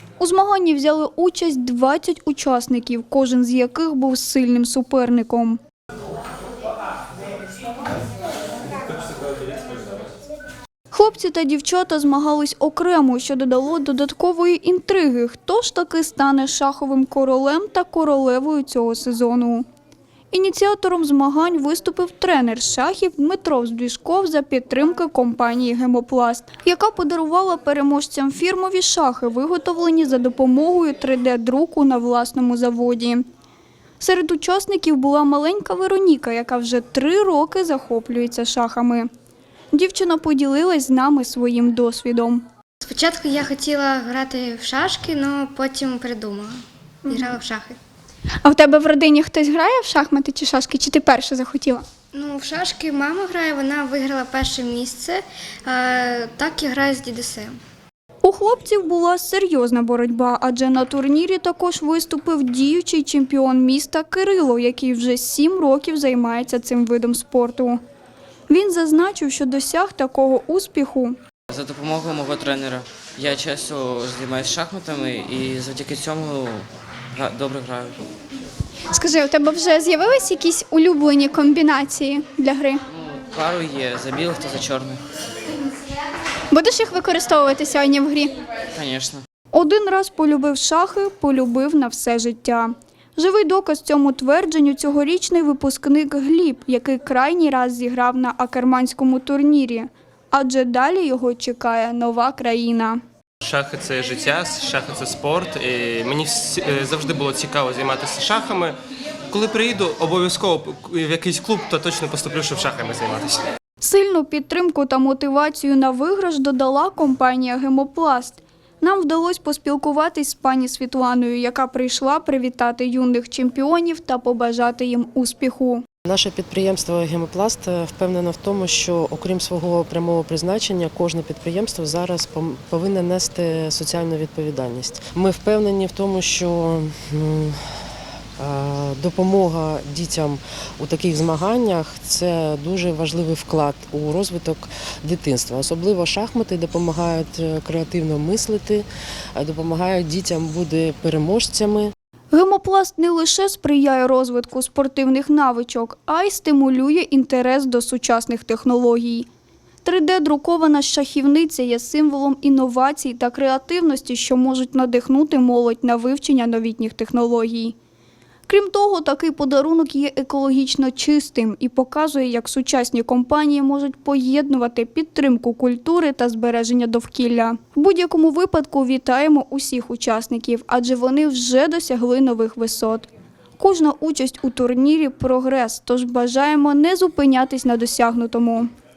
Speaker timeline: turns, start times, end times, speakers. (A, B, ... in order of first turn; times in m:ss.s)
0:00.2-0:05.6 A
0:10.9-0:19.6 A
0:20.3-0:33.2 A
0:34.0-0:39.1 A
0:39.7-0:42.4 A
0:42.8-0:47.8 B
0:48.4-0:51.8 A
0:52.1-0:57.6 B
0:58.2-1:07.8 A
1:08.5-1:11.2 A
1:11.5-1:18.0 C
1:18.9-1:22.8 A
1:23.0-1:25.0 C
1:26.5-1:28.3 A
1:28.7-1:29.2 C
1:29.5-1:43.0 A
1:43.4-1:48.8 D
1:49.3-1:53.4 D
1:53.8-2:05.8 A
2:06.1-2:17.8 E
2:18.4-2:31.9 E
2:32.3-2:39.2 A
2:39.8-2:47.8 A
2:48.5-3:08.7 A